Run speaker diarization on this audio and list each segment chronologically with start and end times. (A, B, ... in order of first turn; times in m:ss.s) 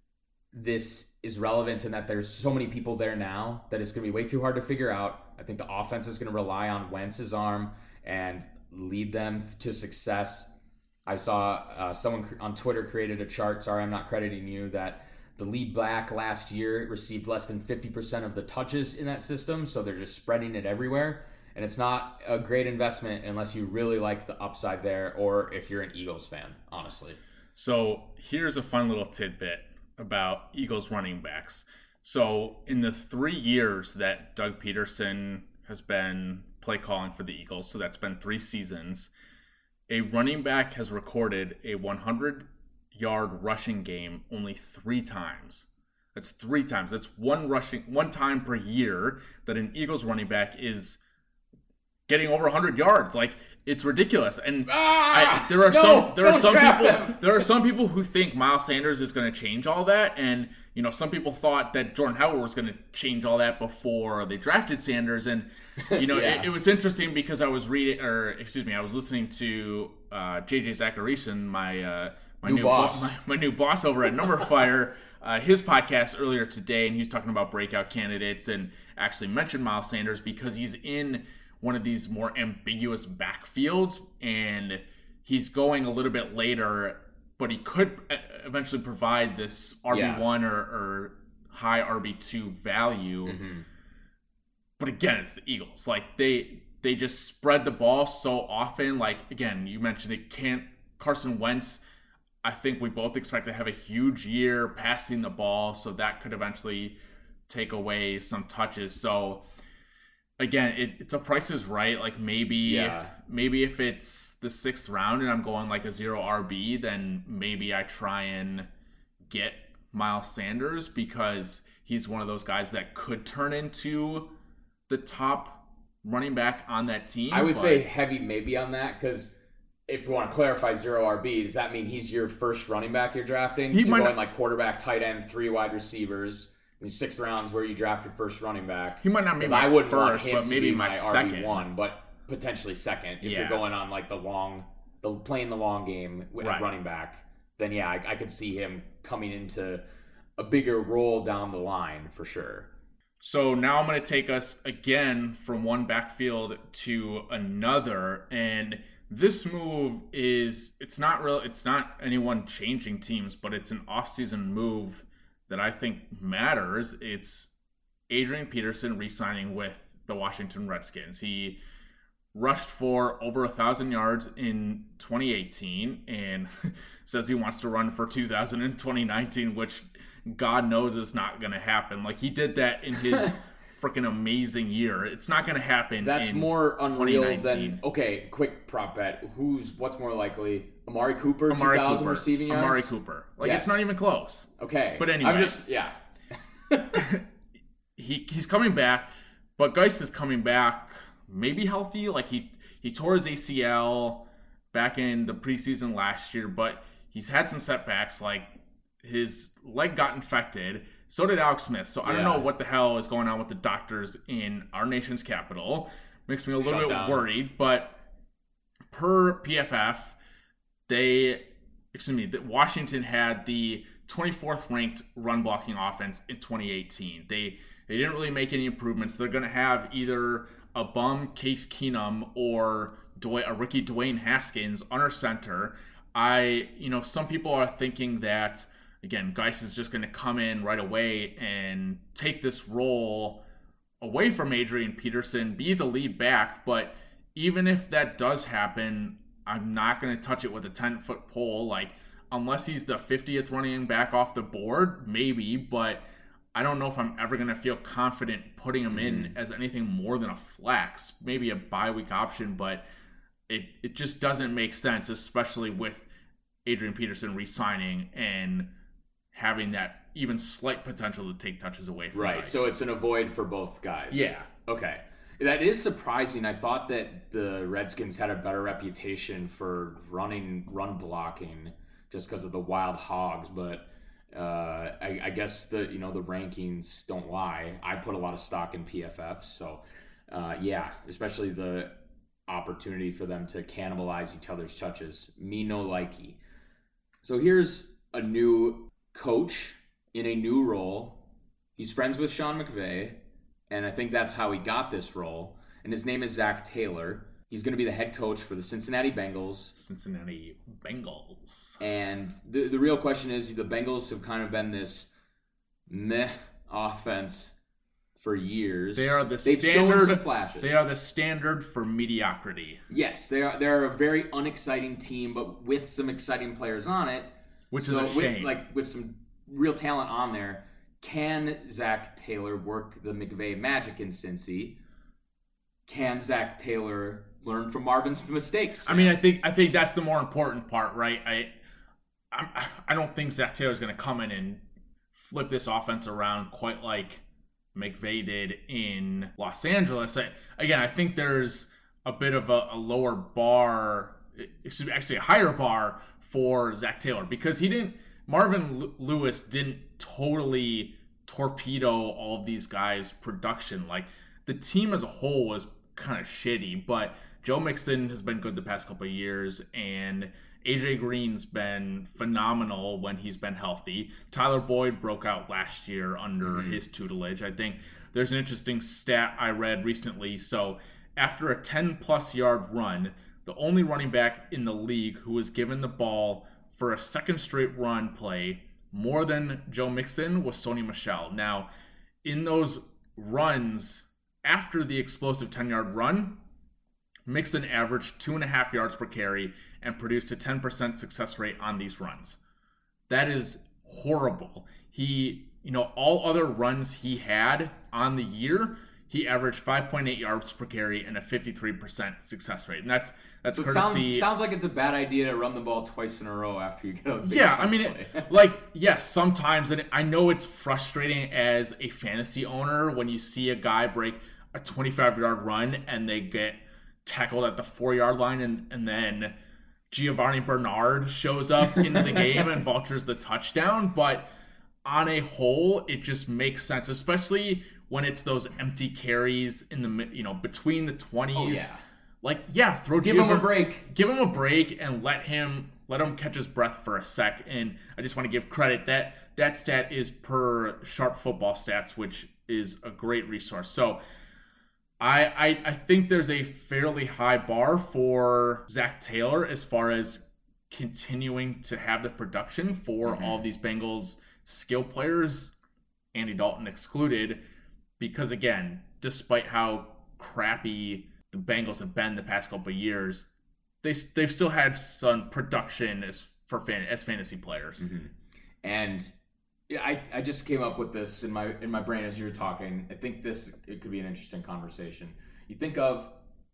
0:00.5-0:10.5 A
0:11.0-0:27.2 A
0:27.6-0:39.1 B
0:39.9-0:51.0 B
0:52.1-1:33.4 B
0:54.7-0:57.5 A
1:05.8-1:06.5 A
1:12.4-1:13.1 A
1:29.9-1:30.2 A
1:33.2-1:33.6 A
1:34.8-1:41.8 B
1:42.4-1:47.0 B
1:47.5-1:49.4 B
1:50.4-1:58.7 B
1:52.6-1:53.1 A
1:59.2-2:04.3 B
2:04.9-2:07.9 B
2:07.3-2:29.8 A
2:13.7-2:14.2 B
2:19.0-2:21.7 B
2:23.2-2:23.6 B
2:26.4-2:26.7 B
2:30.4-2:32.7 A
2:33.2-2:47.5 B
2:48.1-2:51.6 B
2:52.3-3:07.8 B
3:06.0-3:13.9 A
3:11.5-3:15.6 B
3:14.6-3:16.0 A
3:16.7-3:17.1 A
3:16.9-3:17.2 B
3:18.0-3:38.0 B
3:32.0-3:32.5 A
3:36.6-3:37.3 A
3:38.9-3:40.2 B
3:40.9-4:03.4 B
4:04.0-4:16.0 B
4:16.5-4:22.8 B
4:18.9-4:19.3 A
4:23.5-4:26.1 B
4:26.6-4:28.7 B
4:29.3-4:32.7 B
4:32.1-4:56.4 A
4:34.1-4:34.5 B
4:57.2-5:01.2 A
5:01.8-5:09.7 A
5:09.7-5:11.8 B
5:11.8-5:15.1 A
5:15.9-5:17.6 A
5:18.2-5:20.9 A
5:18.9-5:22.8 B
5:22.9-5:34.8 A
5:27.7-5:28.6 B
5:35.8-5:39.2 A
5:38.8-5:41.5 B
5:42.3-5:44.6 B
5:45.1-5:47.2 B
5:47.7-6:31.7 B
6:16.4-6:16.8 A
6:32.2-6:36.4 B
6:37.3-6:42.4 B
6:43.1-6:54.3 B
6:53.5-6:58.3 A
6:57.2-7:09.3 B
7:09.9-7:14.3 B
7:11.9-7:12.4 A
7:14.8-7:21.7 B
7:21.3-7:21.8 A
7:22.2-7:34.0 B
7:23.0-7:23.9 A
7:35.0-7:45.5 B
7:43.0-7:43.4 A
7:46.1-7:47.4 B
7:48.0-7:53.3 B
7:53.8-7:57.8 B
7:57.8-7:59.1 A
7:59.7-8:06.2 A